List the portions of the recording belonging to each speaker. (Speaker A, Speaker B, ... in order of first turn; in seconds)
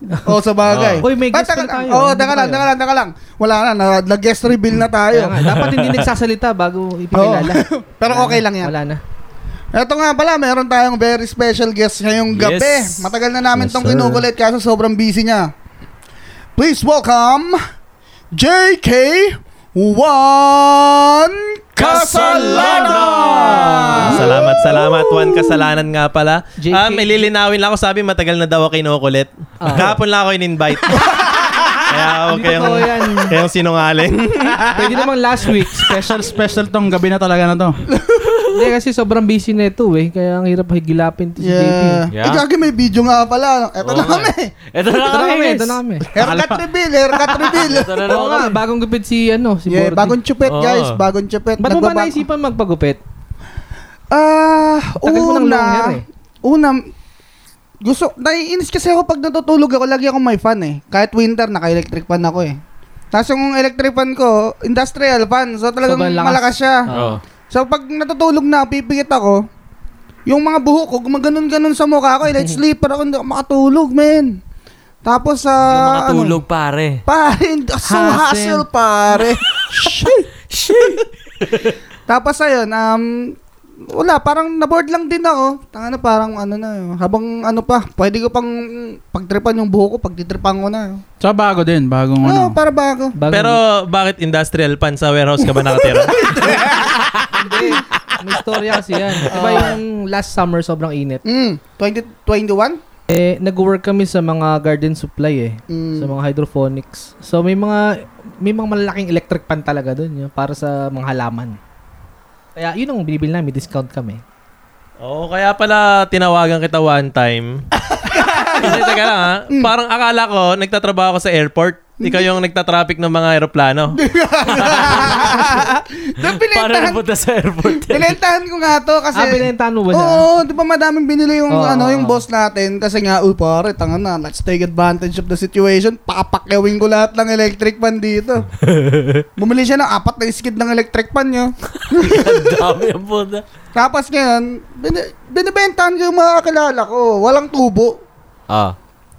Speaker A: 0.2-5.4, 7.1-8.7, 9.7-15.5, 16.6-17.6, 18.3-25.7, 37.9-38.5, 41.4-44.5, 46.1-48.2, 49.7-52.2, 54.1-56.9, 57.8-62.6, 63.1-66.9, 67.5-69.5, 70.3-74.4, 75.0-76.4, 77.1-81.0, 82.1-83.4, 83.9-91.0, 92.2-93.2, 95.6-97.1, 99.3-99.8, 101.2-102.8, 105.7-106.1, 118.0-119.7, 122.0-122.3, 123.9-127.0, 127.7-138.5, 139.4-142.6, 143.8-148.0
Speaker B: 0.7-1.1, 5.4-6.1, 12.3-14.2, 21.8-24.5, 42.1-42.5, 43.8-45.8, 47.2-48.6, 50.5-51.0, 66.9-67.2, 75.6-77.0, 80.5-81.7, 124.5-125.5, 126.2-128.2, 138.7-139.2, 141.9-143.4, 148.5-148.8
Speaker C: 1.0-2.6, 5.1-9.0, 26.6-27.3, 29.6-30.0, 31.1-33.4, 34.7-36.3, 38.5-42.0, 44.9-46.1, 48.1-50.2, 51.6-53.0, 55.0-56.0, 65.8-67.2, 72.3-72.6, 77.8-78.7, 93.2-93.6, 97.3-101.2, 103.1-111.6, 112.6-114.2, 129.1-130.2, 131.5-132.2
Speaker D: 22.2-22.6, 35.8-37.8, 46.2-46.7, 91.2-92.6
Speaker E: 24.1-31.2, 31.8-34.9, 93.3-96.4, 115.0-117.7, 118.5-124.0